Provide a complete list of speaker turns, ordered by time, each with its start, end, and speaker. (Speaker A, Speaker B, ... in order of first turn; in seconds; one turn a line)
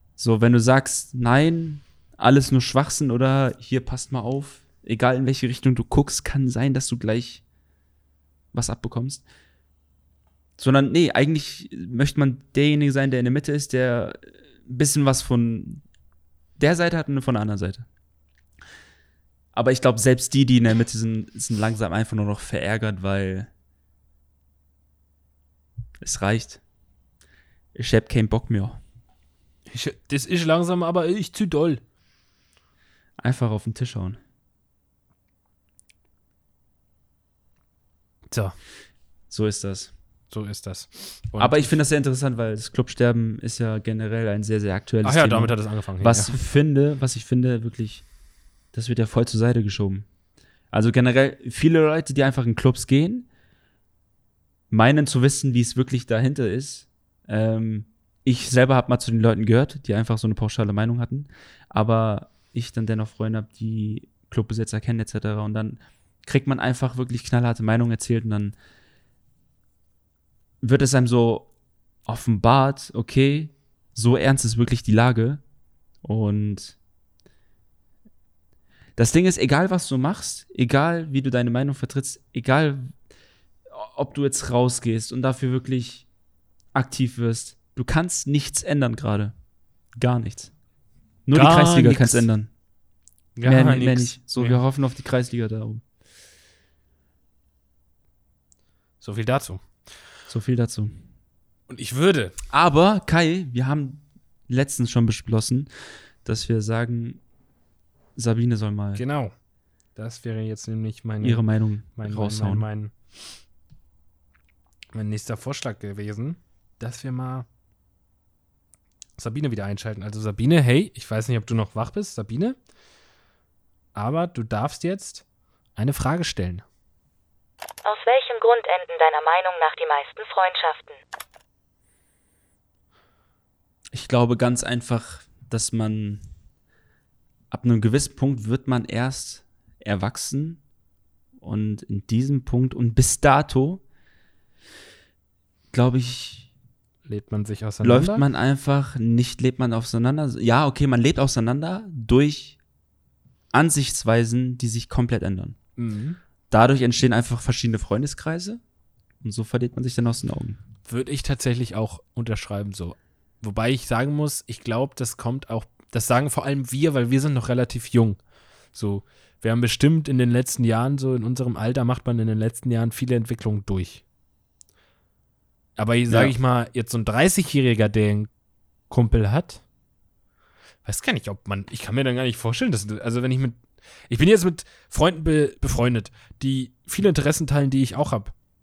Speaker A: 0.2-7.4
Speaker A: 8.5-9.2
Speaker A: 10.6-15.8
Speaker A: 16.6-17.9
Speaker A: 19.5-23.5
Speaker A: 26.0-26.6
Speaker A: 27.7-28.8
Speaker B: 29.7-31.8
Speaker A: 33.2-34.2
Speaker A: 39.3-39.9
Speaker B: 40.3-41.8
Speaker A: 41.4-48.1
Speaker B: 45.0-46.4
Speaker A: 48.7-50.1
Speaker A: 50.7-53.3
Speaker A: 54.7-68.6
Speaker A: 70.6-71.5
Speaker A: 72.1-75.4
Speaker A: 76.0-76.8
Speaker A: 79.0-83.0
Speaker A: 83.7-86.1
Speaker A: 86.7-89.3
Speaker A: 90.0-90.5
Speaker A: 91.3-92.5
Speaker B: 91.3-92.3
Speaker B: 93.4-94.6
Speaker A: 93.5-95.8
Speaker B: 99.0-99.6
Speaker A: 100.3-101.0
Speaker B: 101.7-102.4
Speaker A: 102.5-105.7
Speaker A: 106.2-107.2
Speaker A: 108.2-109.0
Speaker B: 109.0-109.3
Speaker B: 110.0-111.4
Speaker A: 111.2-112.7
Speaker B: 112.0-112.9
Speaker B: 114.9-117.5
Speaker B: 119.2-122.6
Speaker B: 124.0-125.2
Speaker B: 125.8-126.6
Speaker C: 127.8-131.0
Speaker A: 133.9-136.2
Speaker A: 137.5-140.6
Speaker A: 141.4-143.8
Speaker A: 145.7-146.5
Speaker B: 147.1-148.2
Speaker A: 147.8-152.6
Speaker A: 153.5-155.6
Speaker B: 155.8-156.2
Speaker A: 156.5-158.6
Speaker A: 159.2-160.6
Speaker B: 160.9-168.2
Speaker B: 168.7-174.0
Speaker B: 175.8-178.3
Speaker A: 176.1-176.3
Speaker B: 178.9-179.6
Speaker B: 180.8-188.3